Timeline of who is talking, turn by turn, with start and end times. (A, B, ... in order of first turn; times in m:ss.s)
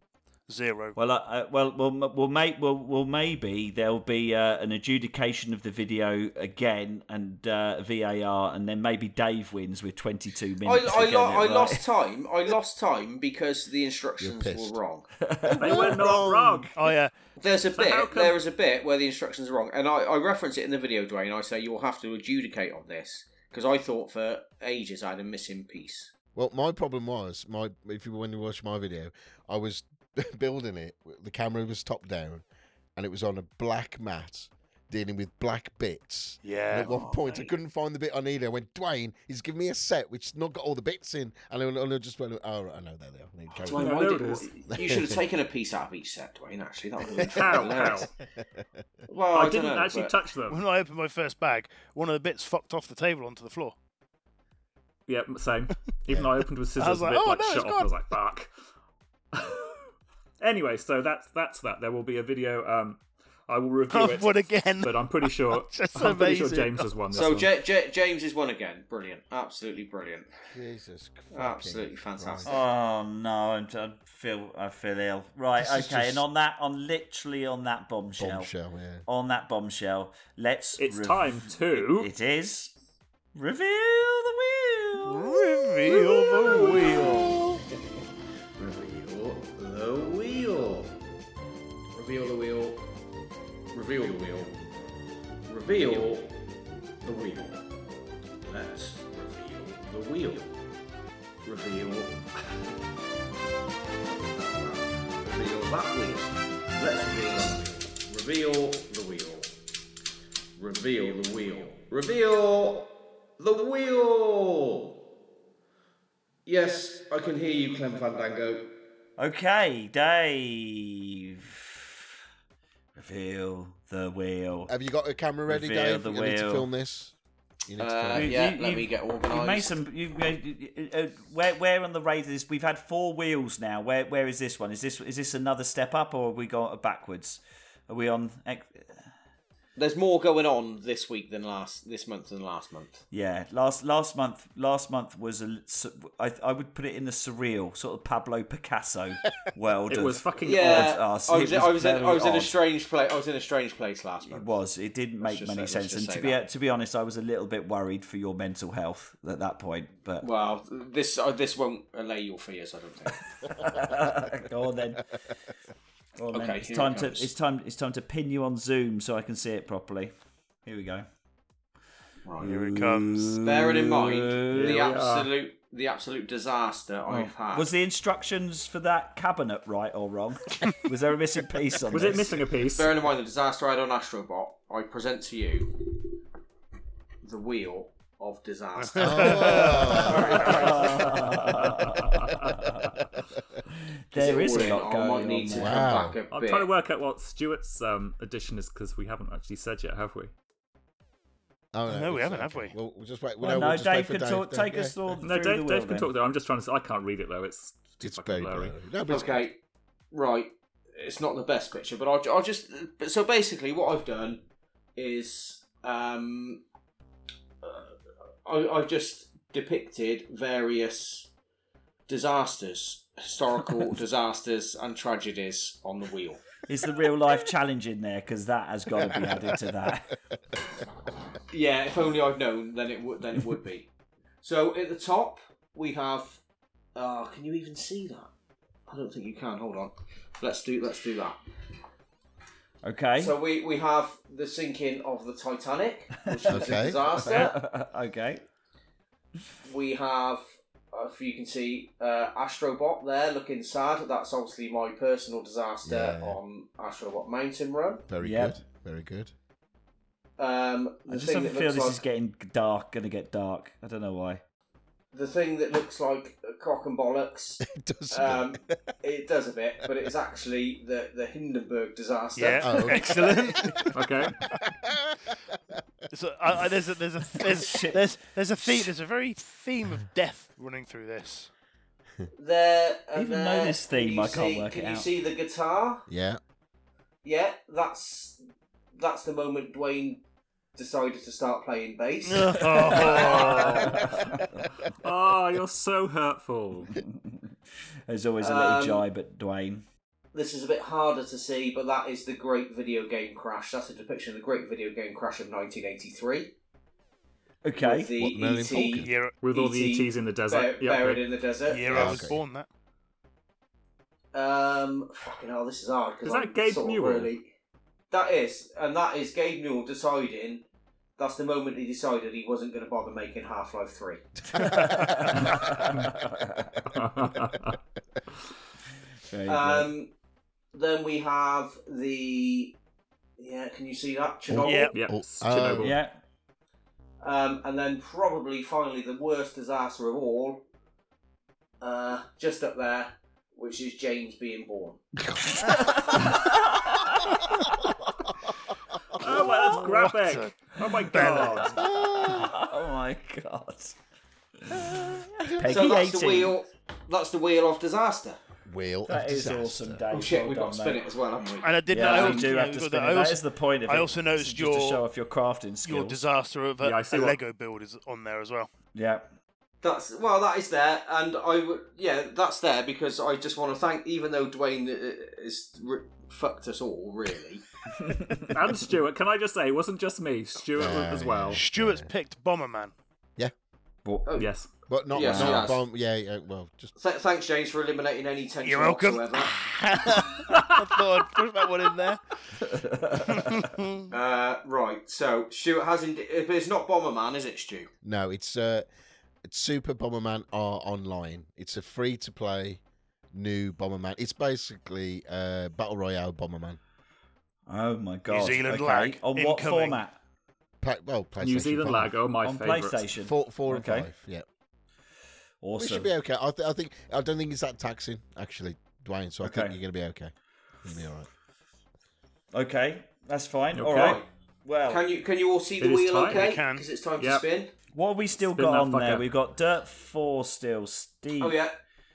0:00.5-0:01.0 A
0:00.9-0:11.9 B
0:10.6-0:15.1 C
0:14.2-0:14.8 D
0:15.2-0:16.0 B
0:15.5-0:16.8 E
0:15.6-0:16.7 D
0:16.7-0:17.1 A
0:17.4-0:26.1 C
0:17.7-0:18.4 E
0:26.4-0:32.4 D
0:33.0-0:43.9 D
0:36.4-0:36.9 A
0:36.8-0:37.5 C
0:43.5-0:48.1 C
0:43.7-0:44.7 E
0:44.7-0:45.2 D
0:47.1-0:47.9 D
0:47.1-0:48.1 E
0:49.1-0:50.1 C
0:49.3-0:50.6 E
0:50.5-0:53.8 A
0:55.1-0:58.5 E
0:56.8-0:58.0 A
0:59.3-1:07.5 E
1:03.9-1:06.9 A
1:07.1-1:10.3 C
1:10.5-1:12.6 D
1:11.3-1:12.6 C
1:12.4-1:18.5 B
1:15.6-1:16.2 D
1:18.2-1:19.0 D
1:19.0-1:22.7 B
1:20.8-1:22.1 E
1:23.3-1:27.3 B
1:25.0-1:27.4 A
1:26.7-1:27.2 C
1:28.6-1:31.0 C
1:31.9-1:32.8 C
1:33.7-1:34.6 C
1:35.4-1:36.3 C
1:37.0-1:37.7 C
1:38.4-1:40.5 C
1:41.4-1:42.3 C
1:44.1-1:49.5 C
1:50.6-1:55.0 C
1:56.4-1:58.7 C
1:59.2-2:02.0 B
2:02.9-2:04.7 B
2:04.7-2:07.1 D
2:05.5-2:06.7 B
2:07.6-2:08.4 D
2:07.8-2:09.8 C
2:08.1-2:19.1 B
2:19.8-2:23.0 C
2:23.1-2:32.6 B
2:29.9-2:31.0 E
2:30.4-2:34.5 C
2:34.2-2:40.2 B
2:35.2-2:36.4 C
2:40.2-2:43.6 C
2:43.4-2:45.1 B
2:46.2-2:50.1 B
2:46.3-2:47.3 C
2:50.6-2:51.1 B
2:52.2-2:52.5 C
2:52.4-2:54.9 B
2:52.4-2:53.4 A
2:53.4-2:57.7 C
2:54.5-2:55.3 E
2:57.1-3:02.4 B
3:01.9-3:02.9 E
3:02.7-3:05.9 C
3:07.2-3:11.4 C
3:08.8-3:11.0 A
3:09.0-3:10.6 D
3:09.8-3:13.0 B
3:10.4-3:10.7 E
3:11.8-3:12.6 E
3:13.0-3:13.4 D
3:13.7-3:15.9 B
3:14.1-3:16.7 C
3:15.5-3:16.2 D
3:16.3-3:20.3 E
3:21.7-3:25.0 D
3:21.9-3:22.7 A
3:23.4-3:26.1 B
3:25.2-3:28.8 E
3:28.0-3:29.4 D
3:29.1-3:29.6 C
3:30.1-3:34.4 C
3:35.0-3:36.6 C
3:37.6-3:41.3 C
3:42.1-3:46.5 C
3:46.7-3:50.2 B
3:48.9-3:49.5 D
3:51.5-3:53.9 C
3:54.4-3:56.4 C
3:56.9-3:58.3 C
3:58.9-4:01.4 C
4:02.8-4:03.4 B
4:03.2-4:07.6 C
4:06.3-4:08.4 B
4:06.5-4:07.4 D
4:09.6-4:18.0 C
4:15.8-4:16.4 D
4:18.1-4:19.3 D
4:18.2-4:18.6 B
4:20.4-4:22.0 C
4:21.1-4:24.4 B
4:25.1-4:33.4 C
4:27.6-4:28.8 D
4:32.4-4:33.8 A
4:32.6-4:35.2 D
4:33.9-4:34.4 E
4:36.1-4:41.5 A
4:37.4-4:38.1 B
4:42.3-4:46.0 C
4:43.1-4:45.1 B
4:46.1-4:46.4 D
4:47.2-4:48.4 C
4:48.9-4:50.2 C
4:50.7-4:54.0 C
4:52.2-4:54.0 A
4:52.6-4:53.2 B
4:53.7-4:54.9 D
4:53.8-4:54.7 B
4:55.0-4:57.0 E
4:56.9-4:59.8 B
4:58.4-4:59.0 C
5:00.3-5:06.5 C
5:07.6-5:08.1 B
5:07.8-5:12.3 C
5:08.2-5:09.1 D
5:09.0-5:09.4 A
5:09.4-5:11.2 E
5:11.7-5:12.7 A
5:11.9-5:12.4 D
5:14.3-5:17.5 C
5:16.2-5:17.3 E
5:18.1-5:20.6 C
5:21.2-5:24.3 C
5:24.5-5:26.7 B
5:24.5-5:27.5 D
5:24.8-5:25.2 A
5:26.9-5:27.8 E
5:29.2-5:29.9 B
5:29.5-5:30.1 C
5:30.7-5:32.8 C
5:33.4-5:34.9 C
5:34.5-5:36.0 D
5:34.6-5:35.0 A
5:34.9-5:35.9 E
5:35.8-5:36.2 B
5:37.2-5:40.6 C
5:41.8-5:45.0 C
5:45.6-5:47.5 B
5:49.2-5:51.9 E
5:49.2-5:51.9 A
5:51.8-5:52.6 D
5:52.2-5:54.0 B
5:54.6-5:56.6 B
5:55.6-5:58.4 C
5:58.6-6:00.0 D
5:59.1-6:01.0 B
6:00.1-6:02.5 C
6:01.6-6:05.0 A
6:01.9-6:06.2 B
6:05.8-6:08.7 A
6:06.8-6:07.4 E
6:08.9-6:09.3 B
6:09.8-6:17.6 C
6:18.0-6:18.5 B
6:18.5-6:21.6 E
6:20.8-6:22.1 D
6:21.5-6:22.9 A
6:24.0-6:24.3 B
6:24.2-6:24.5 C
6:24.4-6:24.7 E
6:24.9-6:26.9 D
6:25.1-6:25.8 C
6:25.2-6:25.6 B
6:27.0-6:29.6 C
6:28.6-6:32.2 A
6:32.6-6:33.7 B
6:33.3-6:34.1 A
6:34.1-6:37.9 C
6:38.0-6:38.9 D
6:39.4-6:42.8 D
6:43.3-6:46.8 D
6:47.7-6:50.2 B
6:48.3-6:50.0 A
6:50.8-6:52.1 D
6:51.4-6:53.0 E
6:52.4-6:54.1 B
6:53.2-6:54.4 D
6:55.6-6:56.1 B
6:55.8-7:01.3 D
6:59.4-6:59.8 B
7:02.5-7:05.0 B
7:03.7-7:04.2 E
7:03.8-7:04.2 C
7:04.9-7:07.7 C
7:05.8-7:06.5 E
7:06.3-7:06.9 A
7:07.2-7:07.4 E
7:08.0-7:11.6 B
7:08.5-7:09.3 E
7:11.4-7:11.7 C